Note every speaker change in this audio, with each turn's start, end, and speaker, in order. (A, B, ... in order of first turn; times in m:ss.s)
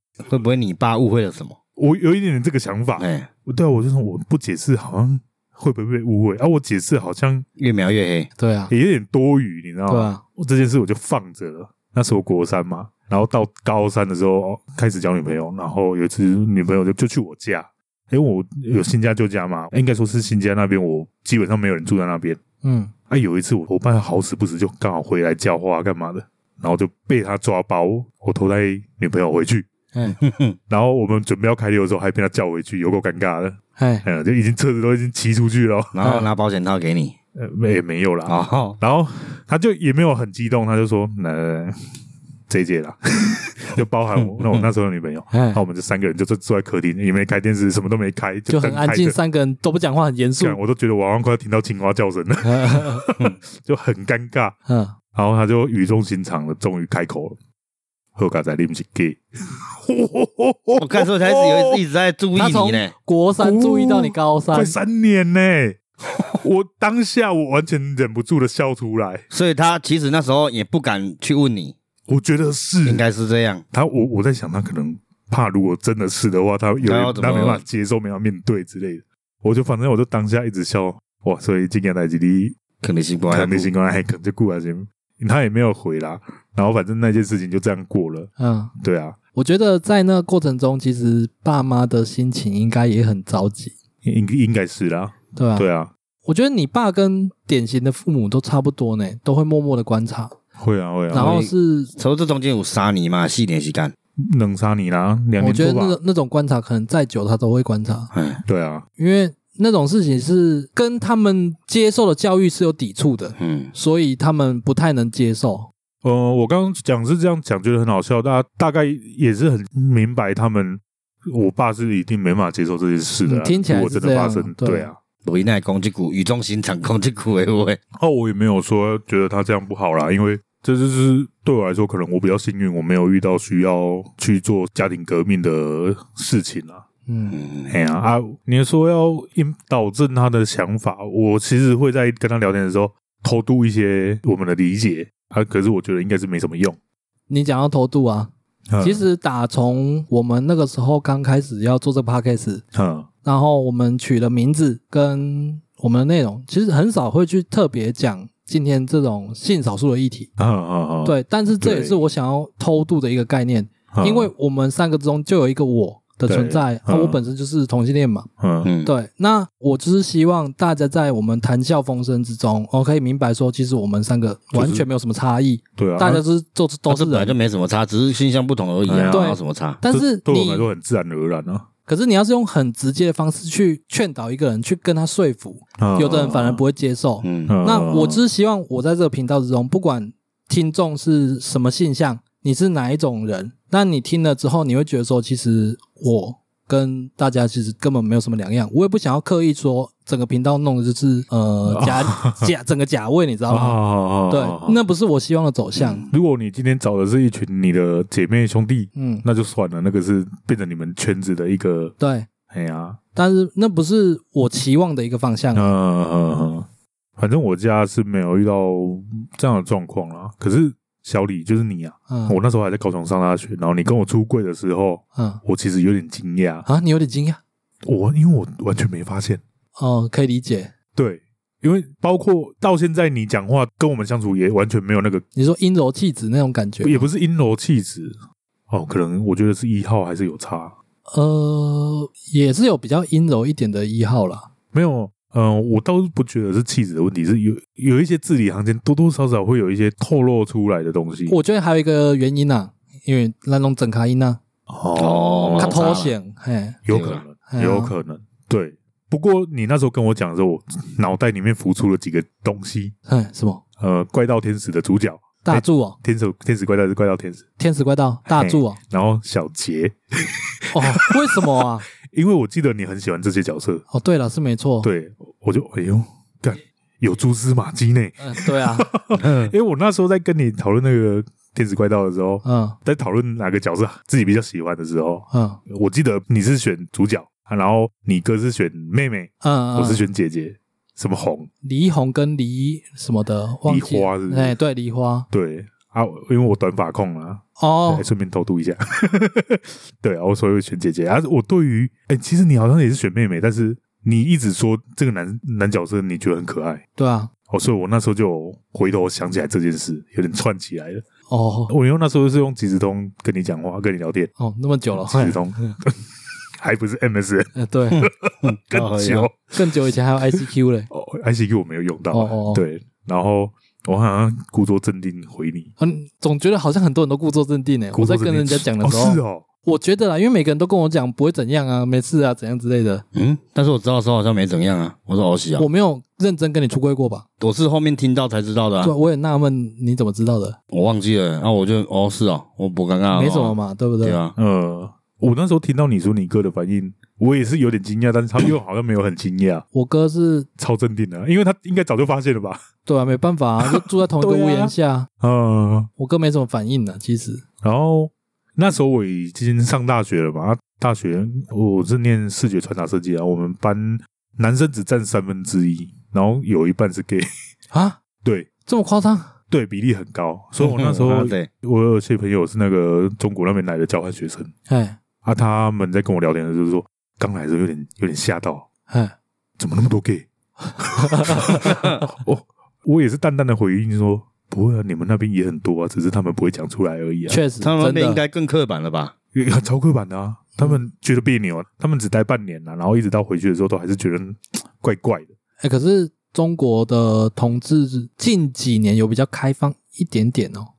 0:00.3-0:01.6 A
0:01.8-0:07.5 B
0:03.0-0:03.3 A
0:07.6-0:08.3 A
0:08.4-0:08.7 C
0:08.7-0:22.4 B
0:09.9-0:10.2 C
0:22.6-0:22.9 C
0:23.1-0:29.7 B
0:30.2-0:30.6 A
0:30.7-0:36.0 B
0:33.8-0:34.0 C
0:35.9-0:37.2 A
0:37.4-0:41.8 B
0:38.3-0:38.8 A
0:42.5-0:49.2 B
0:44.2-0:44.6 A
0:45.3-0:45.6 C
0:48.5-0:50.6 C
0:50.4-0:54.6 B
0:52.4-0:53.1 C
0:54.7-0:55.0 C
0:55.1-0:57.4 B
0:58.2-1:01.8 B
1:00.8-1:02.9 A
1:02.4-1:04.8 C
1:03.4-1:09.3 B
1:09.3-1:11.8 A
1:12.1-1:13.0 B
1:12.8-1:13.6 A
1:13.7-1:22.6 B
1:16.8-1:17.6 A
1:22.8-1:23.7 A
1:23.3-1:29.2 B
1:28.4-1:28.7 C
1:29.4-1:33.8 C
1:34.0-1:35.9 B
1:35.4-1:35.7 C
1:36.2-1:40.3 C
1:40.6-1:41.5 B
1:41.1-1:41.9 C
1:42.0-1:43.9 A
1:44.2-1:46.0 B
1:45.4-1:48.1 C
1:48.1-1:48.4 A
1:48.4-1:48.8 B
1:49.0-1:55.7 C
1:53.4-1:53.7 A
1:56.0-2:05.0 B
2:03.2-2:04.9 C
2:05.2-2:07.8 A
2:08.0-2:16.8 B
2:17.1-2:17.4 C
2:17.3-2:17.7 A
2:17.7-2:26.8 B
2:27.3-2:32.6 C
2:28.7-2:29.0 B
2:32.7-2:33.1 B
2:33.2-2:40.3 C
2:40.4-2:42.0 B
2:41.0-2:48.3 C
2:43.9-2:44.3 B
2:46.3-2:47.2 B
2:48.4-2:48.7 B
2:48.6-2:48.9 A
2:48.8-2:57.4 C
2:54.5-2:54.8 B
2:55.8-2:56.2 B
2:56.9-2:59.8 A
2:58.9-2:59.4 B
2:59.1-3:00.7 C
2:59.9-3:01.7 B
3:01.9-3:26.0 C
3:05.8-3:06.6 B
3:07.2-3:07.5 A
3:07.5-3:08.2 B
3:21.7-3:22.5 B
3:23.5-3:24.8 B
3:25.8-3:26.1 A
3:26.1-3:32.0 B
3:29.0-3:29.2 C
3:32.0-3:32.3 C
3:32.5-3:33.0 B
3:33.2-3:35.7 C
3:35.5-3:46.7 B
3:42.1-3:42.4 C
3:45.2-3:45.4 C
3:46.7-3:47.4 C
3:47.8-3:49.4 B
3:49.8-3:50.7 C
3:51.0-3:55.2 B
3:55.4-3:57.1 C
3:56.8-3:58.2 B
3:58.7-4:00.7 B
4:01.1-4:04.5 C
4:04.7-4:11.4 B
4:11.3-4:14.4 C
4:14.7-4:15.9 B
4:15.0-4:16.1 A
4:15.6-4:16.8 C
4:16.9-4:22.9 B
4:16.9-4:17.2 A
4:17.5-4:17.9 C
4:23.1-4:23.6 C
4:23.8-4:27.4 B
4:25.4-4:26.0 C
4:27.6-4:28.8 C
4:28.3-4:33.8 B
4:30.7-4:31.9 C
4:33.9-4:34.9 C
4:34.8-4:51.5 B
4:38.2-4:38.9 C
4:39.2-4:39.5 A
4:42.4-4:42.8 C
4:45.3-4:45.6 C
4:49.4-4:50.0 C
4:51.6-4:55.3 C
4:53.7-4:54.6 B
4:55.3-5:06.8 B
4:57.6-4:58.0 C
5:07.0-5:07.3 C
5:07.5-5:11.0 B
5:11.3-5:11.7 C
5:11.7-5:14.3 B
5:14.4-5:15.8 C
5:14.9-5:16.0 B
5:16.6-5:19.7 B
5:17.6-5:18.1 C
5:18.0-5:19.3 A
5:19.5-5:20.9 C
5:20.3-5:25.7 B
5:22.1-5:22.6 C
5:25.8-5:33.0 C
5:27.9-5:29.5 B
5:33.1-5:35.7 A
5:35.6-5:37.2 C
5:37.4-5:38.9 A
5:38.8-5:40.6 C
5:40.7-5:44.4 A
5:43.1-5:44.2 C
5:44.4-5:49.7 B
5:49.7-5:50.5 C
5:50.6-5:52.6 B
5:52.9-5:55.1 C
5:53.6-5:55.9 B
5:56.0-5:57.4 C
5:57.6-6:07.3 B
6:07.7-6:08.0 C
6:08.2-6:08.5 B
6:08.6-6:09.4 C
6:09.5-6:14.5 B
6:10.6-6:11.5 A
6:14.7-6:15.0 C
6:15.2-6:18.7 B
6:18.9-6:19.2 C
6:19.6-6:20.3 B
6:20.8-6:27.4 B
6:20.8-6:21.6 C
6:27.3-6:28.2 C
6:27.6-6:29.1 A
6:29.3-6:35.3 B
6:35.6-6:40.7 C